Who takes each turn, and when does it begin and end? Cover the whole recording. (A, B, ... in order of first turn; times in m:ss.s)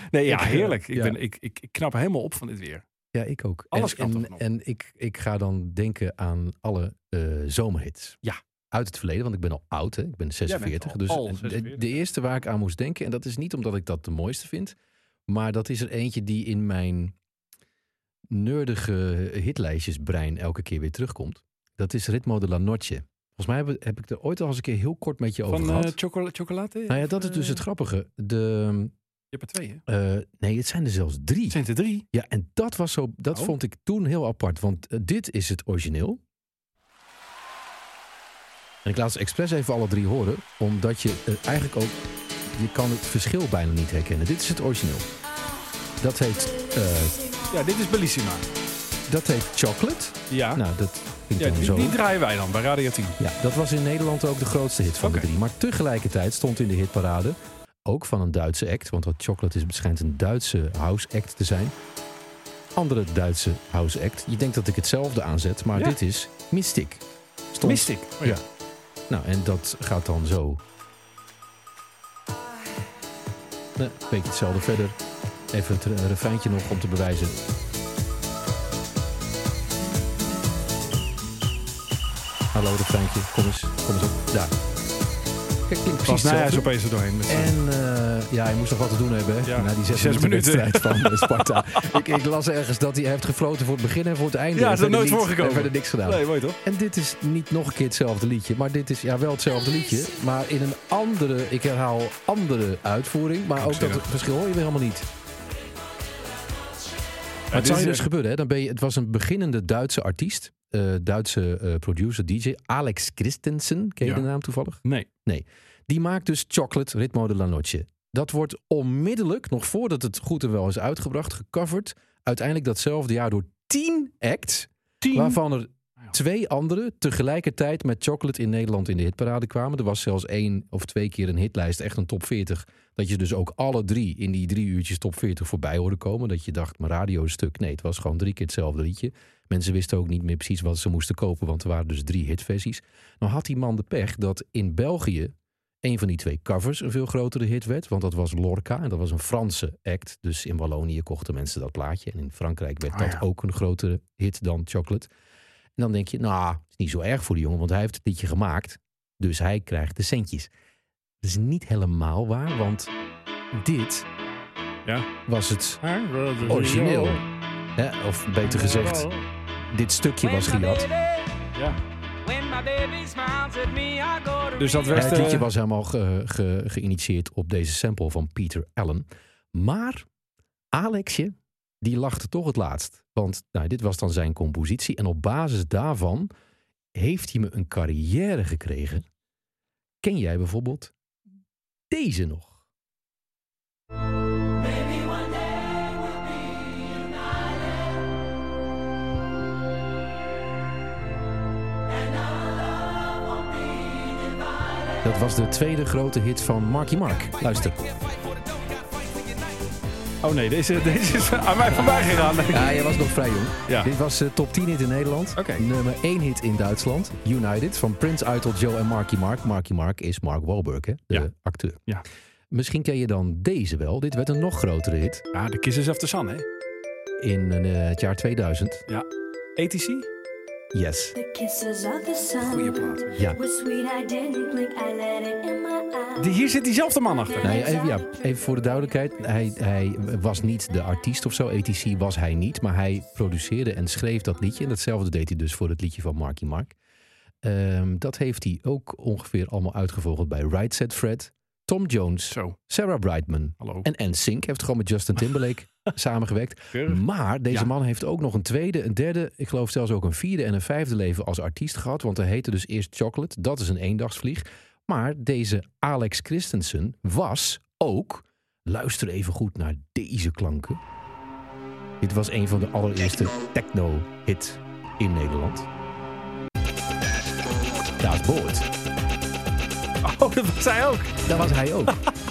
0:00.1-0:02.8 A
0:00.3-0:01.2 B
0:03.1-0:08.2 B
0:03.7-0:04.4 A
0:08.7-0:14.8 B
0:10.5-0:11.9 A
0:15.3-0:17.1 B
0:18.3-0:26.0 B
0:25.5-0:27.6 A
0:26.9-0:28.9 B
0:29.3-0:29.8 A
0:29.9-0:31.6 B
0:31.5-0:32.0 A
0:32.1-0:36.2 B
0:38.8-0:45.1 B
0:46.0-0:47.2 B
0:47.5-0:48.4 A
0:49.1-0:52.0 B
0:50.3-0:50.6 A
0:51.4-0:53.2 A
0:53.2-1:01.7 B
0:55.0-0:55.3 A
1:02.8-1:08.4 B
1:07.6-1:08.4 A
1:09.1-1:10.6 B
1:13.8-1:15.0 B
1:15.5-1:17.4 B
1:22.5-1:24.6 B
1:25.7-1:26.7 B
1:26.1-1:27.5 A
1:27.3-1:45.1 B
1:29.5-1:32.0 A
1:34.6-1:36.6 A
1:43.6-1:44.0 A
1:47.5-1:48.1 A
1:47.5-2:35.1 B
1:54.0-1:54.3 A
2:05.0-2:05.4 A
2:32.9-2:33.2 A
2:35.8-2:40.5 B
2:41.2-2:42.9 B
2:43.5-2:44.1 B
2:45.3-2:45.8 B
2:45.8-2:47.0 A
2:46.4-2:47.2 B
2:47.8-2:49.1 B
2:49.7-2:50.9 B
2:50.2-2:51.3 C
2:52.2-2:55.2 C
2:54.6-2:55.5 A
2:54.9-3:00.1 B
3:00.7-3:06.3 B
3:07.0-3:09.0 B
3:10.0-3:10.9 B
3:11.9-3:12.6 B
3:14.8-3:15.6 C
3:25.0-3:27.8 B
3:30.2-3:32.8 A
3:32.5-3:41.8 B
3:35.4-3:35.6 A
3:42.5-3:45.2 B
3:45.3-3:46.4 A
3:47.2-3:48.8 B
3:49.6-3:50.1 A
3:50.7-3:51.1 B
3:51.1-3:56.4 C
3:52.4-3:53.2 A
3:56.2-3:57.7 A
3:57.1-3:58.7 C
3:57.4-4:06.7 B
4:07.4-4:30.8 B
4:12.3-4:12.6 A
4:13.6-4:13.9 A
4:16.7-4:17.7 A
4:32.0-4:35.7 B
4:38.0-4:38.7 B
4:40.0-4:41.2 A
4:41.2-4:42.0 B